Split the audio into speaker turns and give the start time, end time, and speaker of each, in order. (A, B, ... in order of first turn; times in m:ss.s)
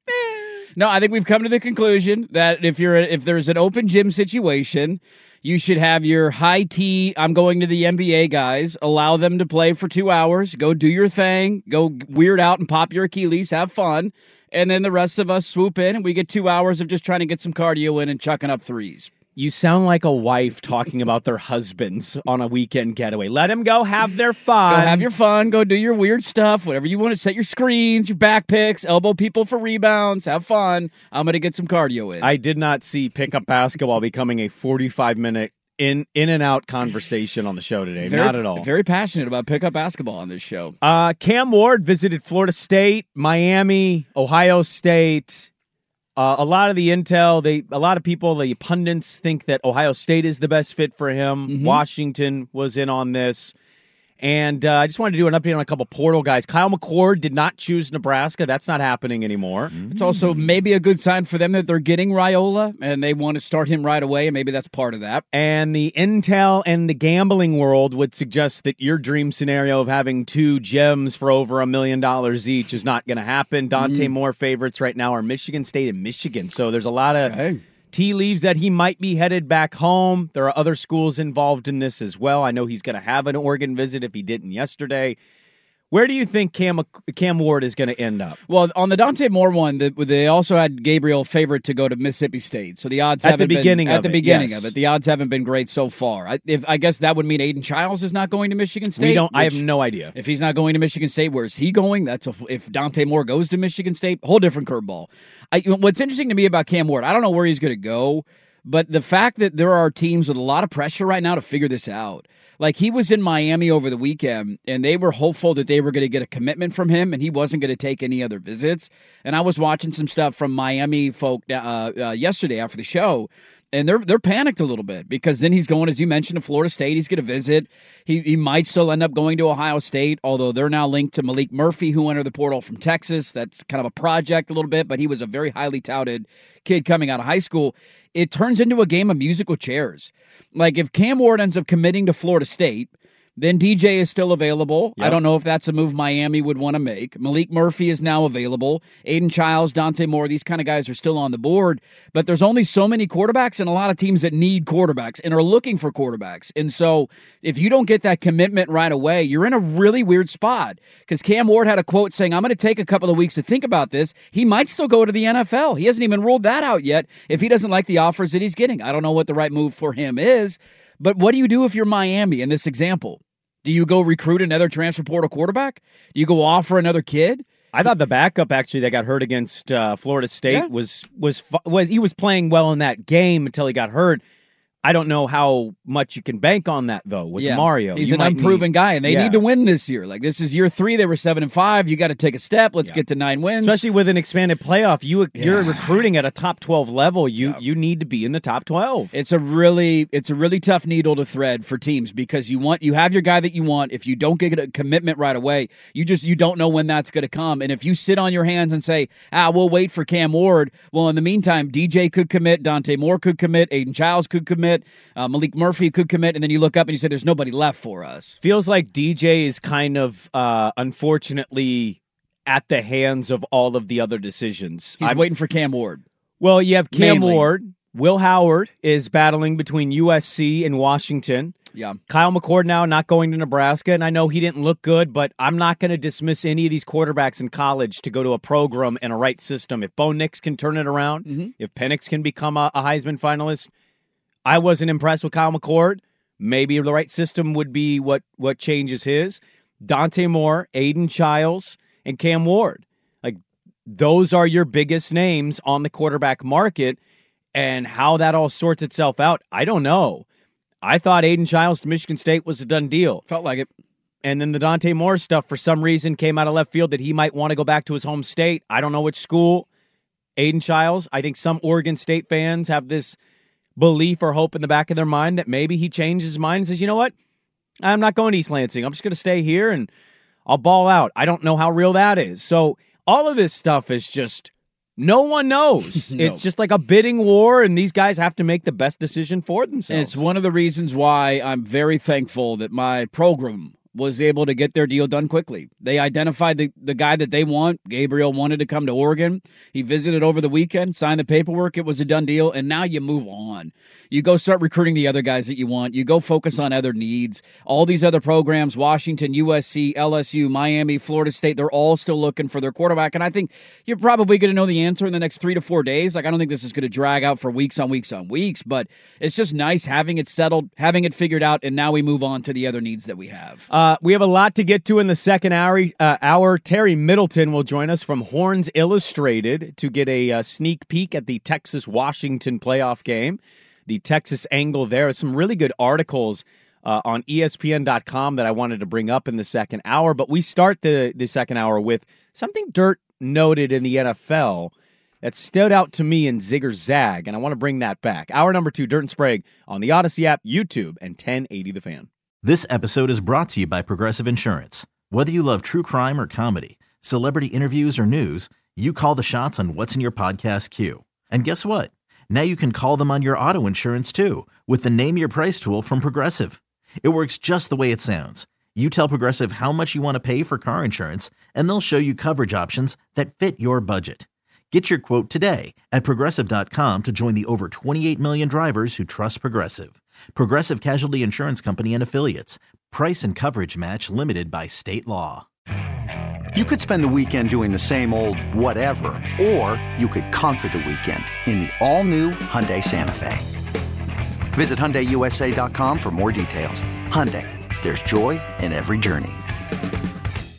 0:00.8-0:19.1 A
0:19.4-0:25.1 B
0:24.7-0:32.3 A
0:32.2-0:38.6 B
0:38.0-0:40.7 A
0:40.8-0:45.5 B
0:46.2-0:53.5 B
0:51.5-0:51.8 A
0:54.2-0:59.7 B
0:59.9-1:05.2 A
1:05.3-1:17.3 B
1:13.7-1:14.1 A
1:17.2-1:17.6 A
1:17.9-1:25.2 B
1:25.9-1:28.4 B
1:28.5-1:39.6 A
1:33.2-1:34.7 B
1:39.0-1:40.1 B
1:40.1-2:57.4 A
2:57.7-3:04.2 B
3:04.8-3:09.4 B
3:07.4-3:13.8 A
3:13.6-3:19.1 B
3:15.3-3:16.1 A
3:19.1-3:38.4 A
3:38.4-3:45.2 B
3:45.0-3:46.0 A
3:46.4-3:51.5 B
3:46.9-3:47.5 A
3:51.7-3:52.0 A
3:52.1-4:03.7 B
4:01.2-4:01.5 A
4:04.4-4:17.0 B
4:17.5-4:20.2 B
4:20.8-4:23.2 B
4:23.3-4:23.7 A
4:24.2-4:29.7 B
4:30.4-4:33.2 B
4:33.8-4:37.1 B
4:37.8-4:39.9 B
4:40.4-4:50.2 B
4:46.1-4:46.4 A
4:49.9-5:23.7 A
5:23.7-5:52.1 B
5:52.4-6:25.4 C
6:26.5-6:33.5 D
6:34.5-6:39.4 D